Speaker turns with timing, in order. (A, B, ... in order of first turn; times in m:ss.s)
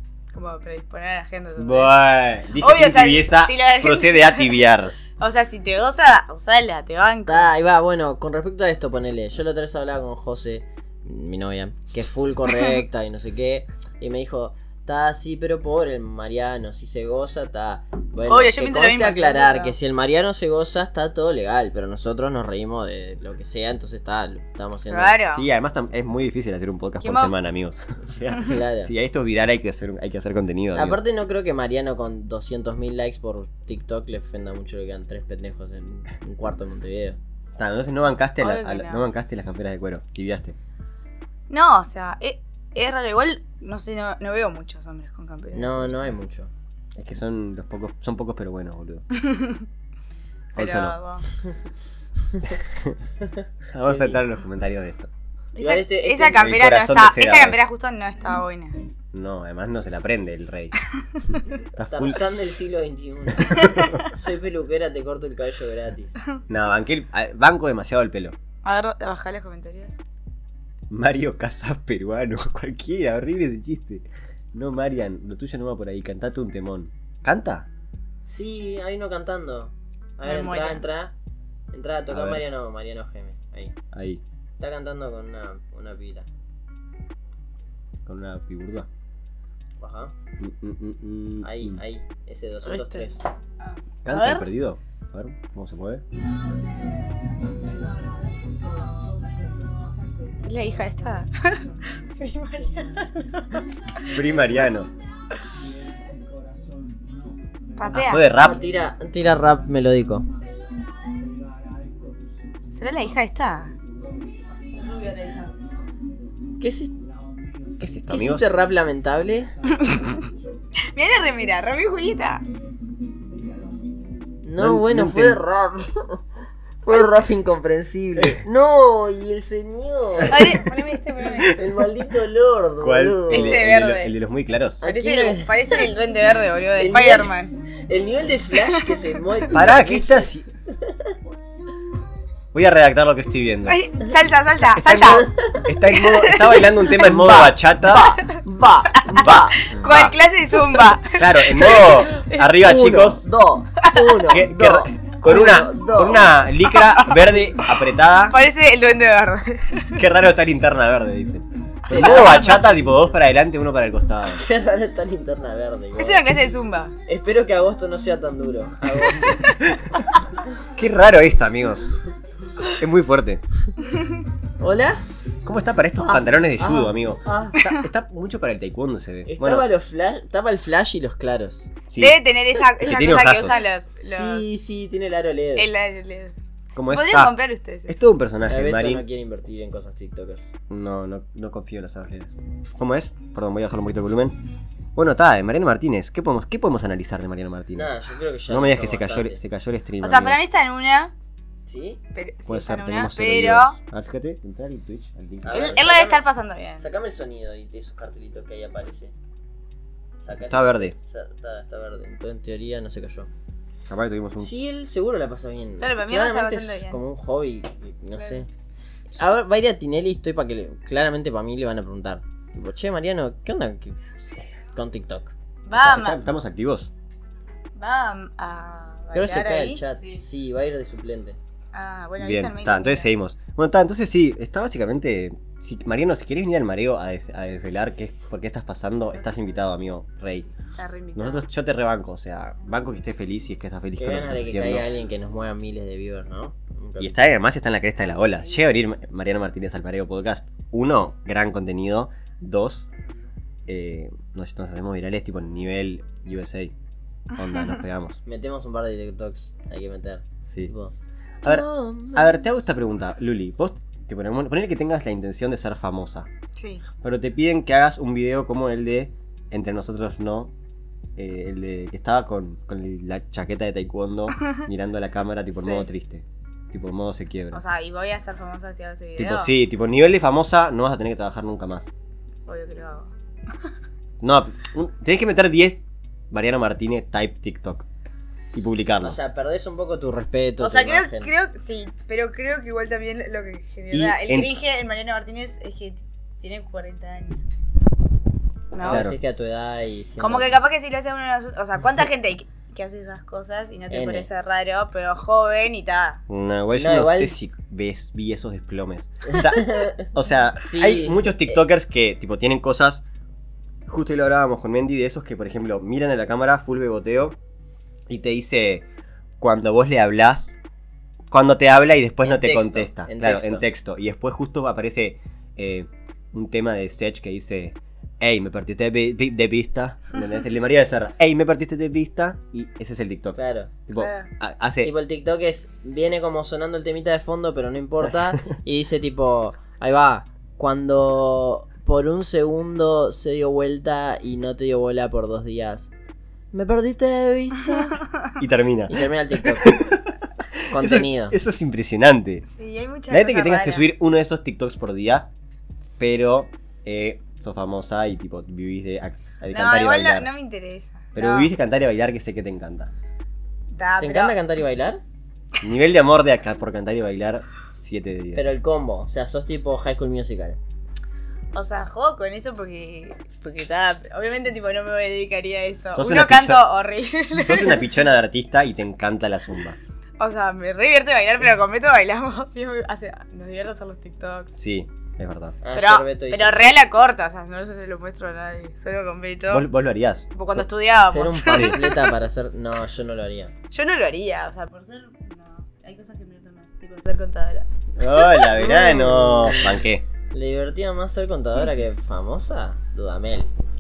0:00.3-0:02.0 A
0:01.6-0:04.9 B
0:02.6-0:04.6 A
0:05.2-0:07.5 A
0:07.2-0:25.2 C
0:18.2-0:19.7 A
0:24.9-0:25.4 A
0:25.3-0:31.0 B
0:27.0-0:27.3 A
0:28.4-0:28.9 C
0:30.7-0:37.2 C
0:37.6-0:40.6 B
0:38.4-0:39.0 A
0:41.5-0:46.0 A
0:45.5-0:46.5 C
0:47.0-0:49.0 B
0:49.2-0:49.6 A
0:50.5-0:51.0 B
0:50.6-0:51.2 A
0:52.5-0:53.0 B
0:53.2-0:54.2 C
0:53.7-0:55.1 B
0:55.5-0:58.8 A
0:55.6-0:56.5 C
0:56.4-0:57.6 B
0:59.1-1:00.8 B
1:01.7-1:02.2 B
1:01.9-1:06.2 C
1:03.4-1:04.0 B
1:03.6-1:03.9 A
1:06.5-1:08.4 B
1:08.6-1:10.0 A
1:10.9-1:17.7 B
1:18.2-1:21.1 C
1:20.2-1:20.8 A
1:21.7-1:23.8 C
1:22.1-1:22.4 B
1:23.9-1:24.2 B
1:24.6-1:26.3 C
1:28.0-1:28.9 B
1:29.8-1:30.1 C
1:30.4-1:31.8 B
1:31.4-1:33.2 C
1:32.6-1:33.0 A
1:33.6-1:34.5 A
1:34.0-1:36.0 B
1:40.4-1:43.6 A
1:44.0-1:44.9 B
1:47.8-1:48.2 A
1:47.9-1:48.6 B
1:48.4-1:50.2 C
1:52.7-1:53.7 A
1:55.0-1:55.4 A
1:56.6-1:57.0 C
1:57.8-1:58.5 B
1:58.1-1:59.5 C
1:59.7-2:00.2 A
2:00.9-2:02.4 A
2:04.4-2:06.2 C
2:04.6-2:05.4 B
2:06.8-2:10.7 C
2:10.3-2:11.6 A
2:11.4-2:13.6 C
2:12.8-2:14.8 B
2:13.3-2:14.1 A
2:14.8-2:15.9 C
2:14.8-2:17.5 A
2:16.7-2:21.1 C
2:18.6-2:19.0 A
2:19.5-2:20.4 B
2:22.5-2:23.9 B
2:23.7-2:25.3 A
2:24.8-2:28.2 B
2:25.0-2:25.6 C
2:25.8-2:26.7 A
2:26.9-2:29.7 C
2:28.9-2:32.5 A
2:29.1-2:30.1 B
2:31.1-2:33.3 B
2:32.6-2:36.4 C
2:33.8-2:34.1 A
2:34.3-2:38.4 B
2:36.8-2:37.3 A
2:38.3-2:40.0 A
2:40.0-2:44.4 B
2:41.9-2:42.8 C
2:41.9-2:42.4 A
2:44.3-2:46.2 C
2:46.0-2:46.9 A
2:47.1-2:49.6 C
2:49.2-2:49.6 A
2:50.8-2:51.9 B
2:52.7-2:53.4 B
2:54.6-2:55.0 C
2:55.4-2:59.7 B
2:56.0-2:57.6 C
2:59.2-3:01.7 C
3:01.9-3:02.2 B
3:02.0-3:04.5 A
3:02.8-3:03.6 B
3:04.0-3:05.7 C
3:05.6-3:06.4 A
3:06.7-3:07.4 B
3:06.9-3:07.9 A
3:07.9-3:09.0 B
3:08.5-3:10.5 C
3:10.7-3:14.4 B
3:15.0-3:17.9 B
3:17.7-3:19.4 C
3:18.5-3:20.4 B
3:20.0-3:21.1 A
3:21.6-3:22.0 C
3:22.1-3:23.7 A
3:22.4-3:25.8 B
3:25.4-3:26.2 C
3:25.5-3:26.8 A
3:26.8-3:29.1 C
3:30.2-3:33.3 C
3:30.4-3:30.9 B
3:33.9-3:34.5 B
3:34.4-3:38.5 C
3:35.8-3:37.0 A
3:39.1-3:44.0 C
3:44.7-3:45.3 C
3:45.7-3:46.2 A
3:45.7-3:46.9 B
3:47.8-3:49.8 A
3:49.1-3:51.4 C
3:51.7-3:53.1 A
3:52.2-4:00.5 B
4:00.8-4:01.4 A
4:01.1-4:04.8 B
4:04.0-4:07.2 C
4:07.0-4:12.9 B
4:13.7-4:16.7 B
4:17.3-4:18.2 B
4:18.2-4:22.5 C
4:20.4-4:20.7 B
4:21.4-4:26.3 B
4:26.6-4:26.8 A
4:27.0-4:30.5 B
4:31.2-4:37.6 B
4:35.6-4:35.9 A
4:37.5-4:39.5 A
4:39.2-4:41.9 B
4:42.5-4:43.1 A
4:44.2-4:47.9 B
4:48.5-4:49.2 B
4:49.0-4:51.3 C
4:50.6-4:57.5 A
4:53.9-4:54.5 B
4:58.7-4:59.1 A
4:58.8-5:00.6 C
4:58.8-4:59.1 B
5:00.2-5:06.2 A
5:03.9-5:04.3 C
5:06.3-5:13.0 B
5:06.8-5:07.3 C
5:09.3-5:10.0 C
5:10.6-5:11.6 C
5:13.9-5:17.4 B
5:18.1-5:18.8 B
5:19.4-5:20.6 B
5:21.3-5:34.9 B
5:22.2-5:23.6 C
5:33.4-5:33.7 C
5:34.0-5:34.3 A
5:34.8-5:45.9 C
5:46.5-5:48.0 C
5:48.4-5:52.4 B
5:48.9-5:49.8 C
5:50.7-5:51.4 C
5:52.5-5:53.8 A
5:53.1-5:55.3 B
5:56.0-6:00.3 B
5:59.5-6:01.5 A
6:01.1-6:02.9 B
6:03.7-6:04.4 A
6:04.0-6:05.0 C
6:05.6-6:08.5 B
6:08.3-6:10.6 C
6:11.5-6:17.8 A
6:16.0-6:16.6 B
6:17.3-6:19.8 B
6:20.2-6:24.6 A
6:24.5-6:25.6 B
6:25.6-6:26.6 C
6:25.7-6:29.6 A
6:29.5-6:30.3 B
6:30.3-6:32.1 A
6:31.0-6:33.5 C
6:31.5-6:31.8 B
6:33.7-6:38.5 A
6:38.0-6:40.0 B
6:38.6-6:43.5 C